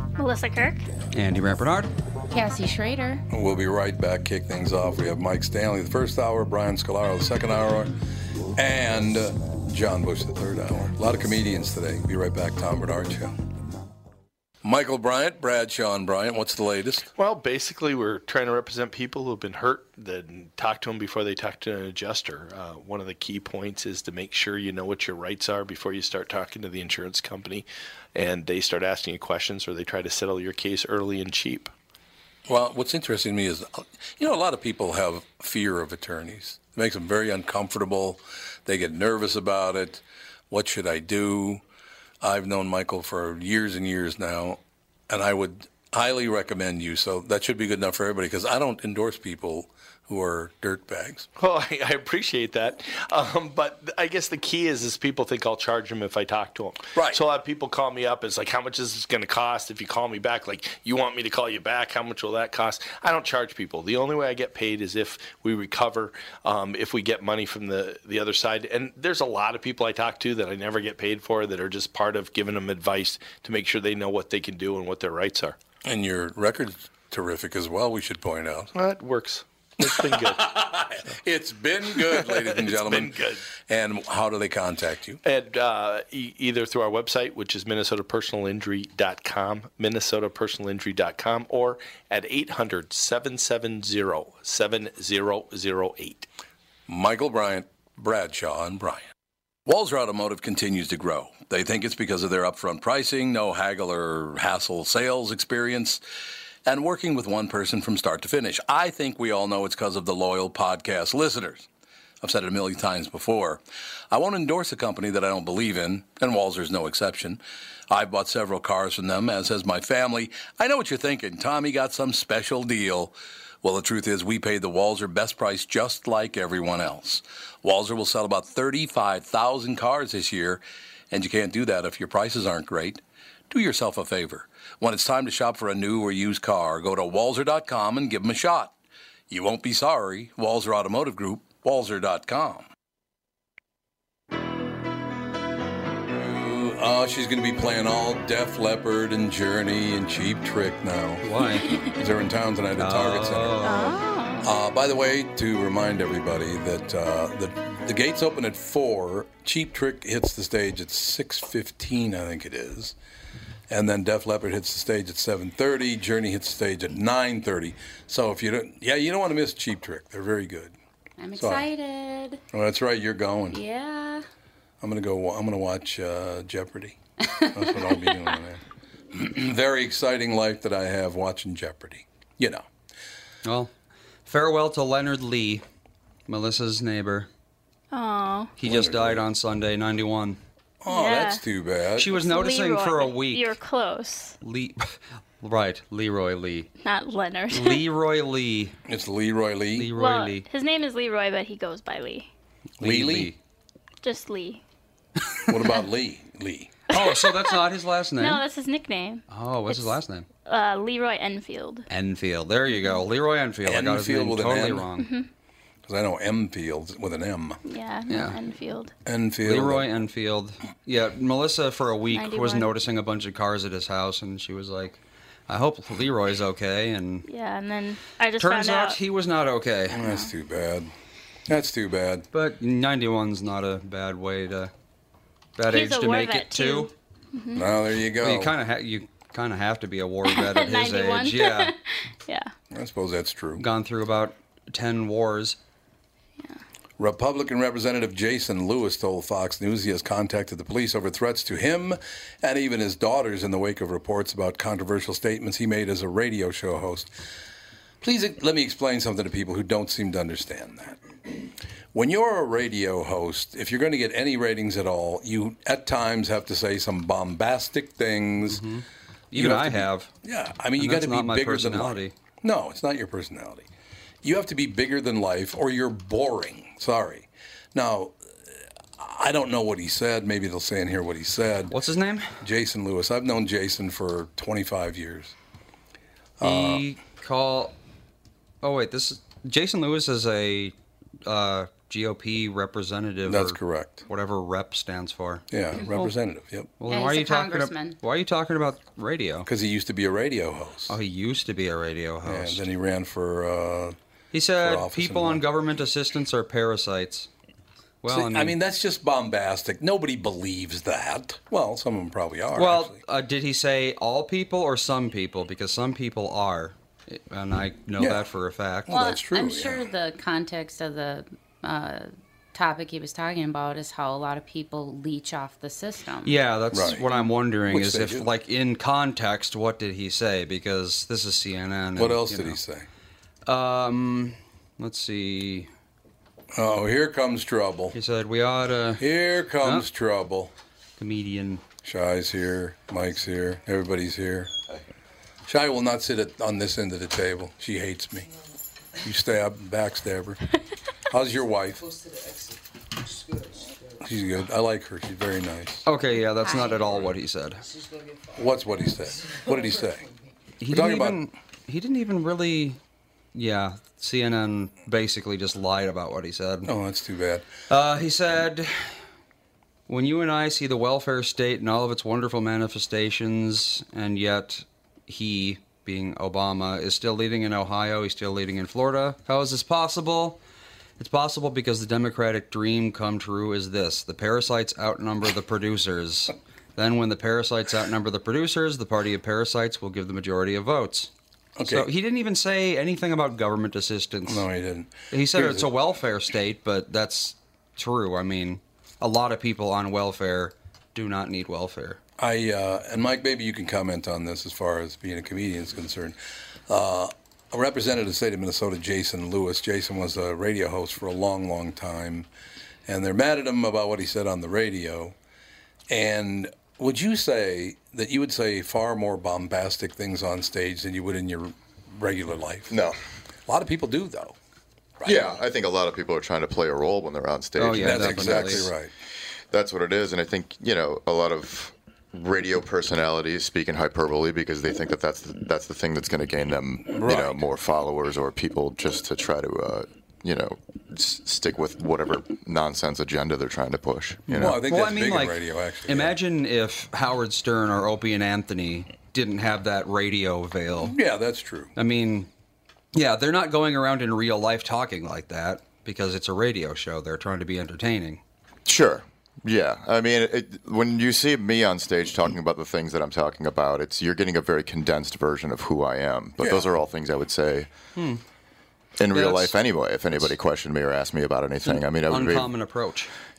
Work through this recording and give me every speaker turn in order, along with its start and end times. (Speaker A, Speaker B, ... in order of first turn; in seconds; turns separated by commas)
Speaker A: 0.2-0.8, Speaker B: 1.1-1.9, Speaker C: 2.3-3.2, Speaker D: 3.3-7.9, Speaker D: 8.6-13.3, Speaker D: 14.6-17.1, Speaker E: 17.2-31.7, Speaker D: 32.5-41.6, Speaker D: 42.2-51.3, Speaker E: 51.4-75.6, Speaker D: 57.0-57.2, Speaker D: 75.8-78.7, Speaker E: 78.7-81.1, Speaker D: 79.8-85.2, Speaker E: 81.9-83.5, Speaker E: 85.2-96.3, Speaker D: 96.9-99.1, Speaker D: 99.7-106.0, Speaker D: 106.7-111.7, Speaker D: 112.2-138.7, Speaker D: 139.3-142.7, Speaker D: 146.1-151.3, Speaker B: 151.2-151.8, Speaker D: 152.0-153.6, Speaker B: 152.8-154.0, Speaker A: 153.6-154.5, Speaker D: 154.4-162.9, Speaker D: 163.7-170.8, Speaker C: 171.2-172.4, Speaker D: 171.4-171.7, Speaker D: 172.5-173.6, Speaker C: 173.5-174.2, Speaker D: 174.8-177.0, Speaker C: 177.3-178.3, Speaker D: 177.5-182.7, Speaker B: 183.4-183.7, Speaker B: 184.3-185.7, Speaker B: 186.3-187.3, Speaker A: 187.9-188.6, Speaker B: 188.6-190.4, Speaker D: 188.6-189.2, Speaker D: 190.8-192.1, Speaker A: 190.9-191.4, Speaker B: 192.0-193.5, Speaker A: 192.1-194.4, Speaker B: 194.4-196.7, Speaker A: 196.8-197.8, Speaker B: 197.5-198.8, Speaker D: 198.9-199.9, Speaker B: 199.8-200.4, Speaker A: 199.9-202.3, Speaker B: 202.8-203.3, Speaker D: 202.8-203.4, Speaker A: 204.0-204.6, Speaker D: 205.5-206.7, Speaker B: 206.9-208.4, Speaker A: 206.9-207.5, Speaker A: 208.2-209.2, Speaker B: 209.3-210.3, Speaker A: 210.5-211.9, Speaker B: 211.9-215.1, Speaker A: 212.7-213.0, Speaker D: 213.7-214.9, Speaker A: 215.0-215.3, Speaker D: 215.9-217.6, Speaker A: 217.7-218.9, Speaker B: 218.1-218.4, Speaker D: 219.1-219.9, Speaker B: 219.4-227.3, Speaker A: 222.1-222.7, Speaker A: 227.3-229.0, Speaker B: 228.4-230.0, Speaker D: 229.9-230.9, Speaker D: 231.5-232.2, Speaker B: 232.3-234.7, Speaker B: 235.6-236.9, Speaker A: 235.7-237.8, Speaker D: 237.6-238.6, Speaker B: 238.2-241.7, Speaker A: 240.3-242.5, Speaker D: 242.7-243.7, Speaker B: 243.6-245.6, Speaker D: 247.0-257.1, Speaker D: 258.0-268.6, Speaker B: 268.5-270.1, Speaker D: 269.3-273.7, Speaker B: 270.8-272.1, Speaker D: 274.2-278.2, Speaker D: 279.0-281.7, Speaker B: 281.7-282.4, Speaker D: 282.4-285.4, Speaker D: 286.4-286.9, Speaker B: 286.4-287.8, Speaker B: 288.6-290.7, Speaker B: 291.2-296.1, Speaker D: 293.3-294.1, Speaker D: 295.5-296.7, Speaker B: 296.8-299.5, Speaker C: 296.9-298.0, Speaker D: 299.4-301.0, Speaker B: 300.9-302.6, Speaker D: 302.3-304.0, Speaker B: 304.3-307.3, Speaker D: 304.6-305.4, Speaker B: 308.0-308.6, Speaker D: 308.1-313.0, Speaker B: 312.5-318.9, Speaker D: 318.0-318.2, Speaker D: 318.9-319.9, Speaker C: 318.9-326.4, Speaker B: 326.2-332.6, Speaker D: 326.7-328.3, Speaker D: 332.0-332.9, Speaker B: 333.5-335.7, Speaker D: 336.5-338.0, Speaker B: 337.9-339.9, Speaker D: 339.0-340.5, Speaker B: 341.0-341.6, Speaker D: 341.8-344.5, Speaker D: 345.5-348.3, Speaker D: 349.0-350.4, Speaker D: 351.1-351.9, Speaker D: 354.0-355.9, Speaker B: 355.9-357.6, Speaker C: 356.4-357.1, Speaker D: 358.4-360.1, Speaker B: 360.6-362.8, Speaker D: 360.7-361.2, Speaker B: 363.3-366.7, Speaker D: 366.6-367.4, Speaker B: 367.7-368.9, Speaker B: 369.9-380.4, Speaker B: 381.0-391.1, Speaker D: 391.6-391.9, Speaker B: 391.6-394.5, Speaker D: 394.3-395.7, Speaker B: 395.1-402.0, Speaker D: 402.2-406.2, Speaker D: 406.7-412.3, Speaker D: 412.9-415.1, Speaker D: 415.9-422.8, Speaker F: 422.7-423.0, Speaker D: 423.5-424.4, Speaker D: 425.0-425.3, Speaker F: 425.0-428.7, Speaker B: 427.6-428.7, Speaker D: 427.7-428.9, Speaker F: 429.5-444.6, Speaker D: 436.9-437.4, Speaker B: 444.3-451.0, Speaker D: 444.3-446.1, Speaker D: 450.8-451.7, Speaker B: 451.8-452.3, Speaker B: 452.9-458.2, Speaker F: 458.7-467.7, Speaker D: 466.4-466.7, Speaker B: 467.9-468.2, Speaker F: 469.0-472.5, Speaker B: 469.1-469.6, Speaker B: 471.6-473.1